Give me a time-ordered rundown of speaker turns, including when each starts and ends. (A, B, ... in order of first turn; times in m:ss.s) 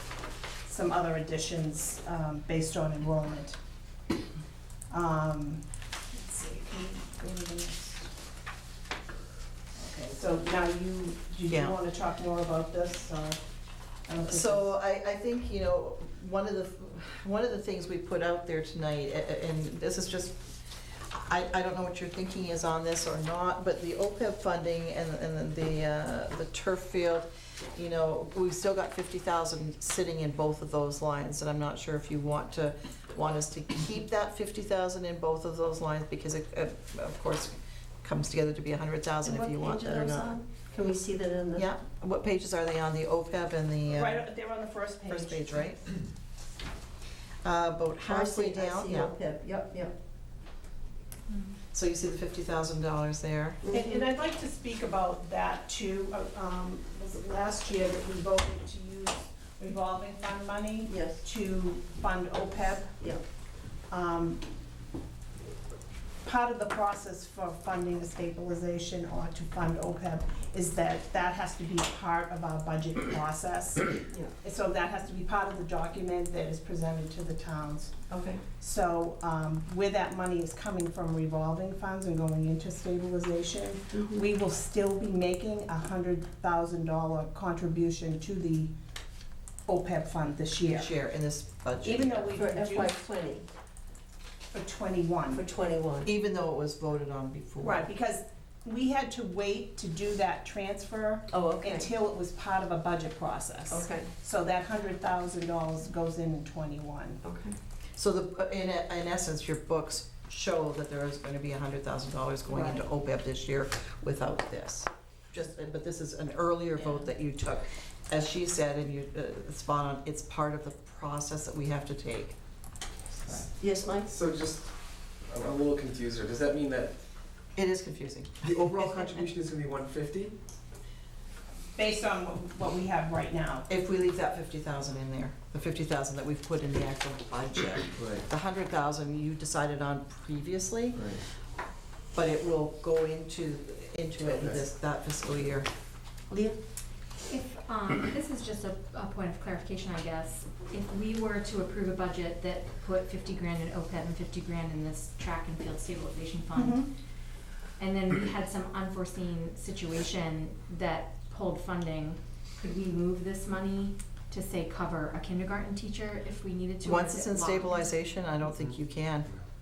0:00.6-0:03.6 A
0:04.9-0:08.1 A
0:09.8-0:13.4 A
0:11.5-0:11.8 B
0:14.1-0:14.7 A
0:14.2-0:20.5 B
0:21.1-0:40.3 B
0:39.2-0:41.7 C
0:41.6-0:44.2 B
0:43.9-0:45.6 A
0:45.1-0:45.9 B
0:47.4-0:49.1 B
0:48.0-0:50.0 C
0:51.3-0:51.6 D
0:51.7-0:53.6 B
0:53.6-0:54.1 C
0:53.7-1:03.0 A
1:00.9-1:01.2 C
1:03.9-1:04.4 A
1:06.2-1:18.0 A
1:18.1-1:18.4 C
1:18.6-1:28.7 A
1:23.9-1:24.3 C
1:29.7-1:30.9 A
1:30.6-1:32.4 B
1:31.8-1:33.0 A
1:32.4-1:33.5 C
1:34.5-1:35.4 A
1:35.3-1:36.1 C
1:36.0-1:37.9 B
1:37.6-1:47.2 A
1:41.3-1:41.9 C
1:43.7-1:44.1 C
1:47.2-1:47.5 C
1:48.0-2:02.4 B
1:52.5-1:52.8 C
1:56.8-1:57.1 D
2:03.3-2:03.5 E
2:03.6-2:04.1 C
2:04.0-2:07.0 E
2:07.6-2:09.1 B
2:08.4-2:10.4 E
2:11.8-2:13.7 A
2:13.7-2:21.2 B
2:18.0-2:18.2 E
2:21.0-2:21.2 E
2:22.1-2:25.7 B
2:24.2-2:24.6 E
2:26.3-2:26.6 C
2:27.3-2:37.0 D
2:36.5-2:36.9 A
2:37.8-2:48.1 D
2:46.8-2:49.3 B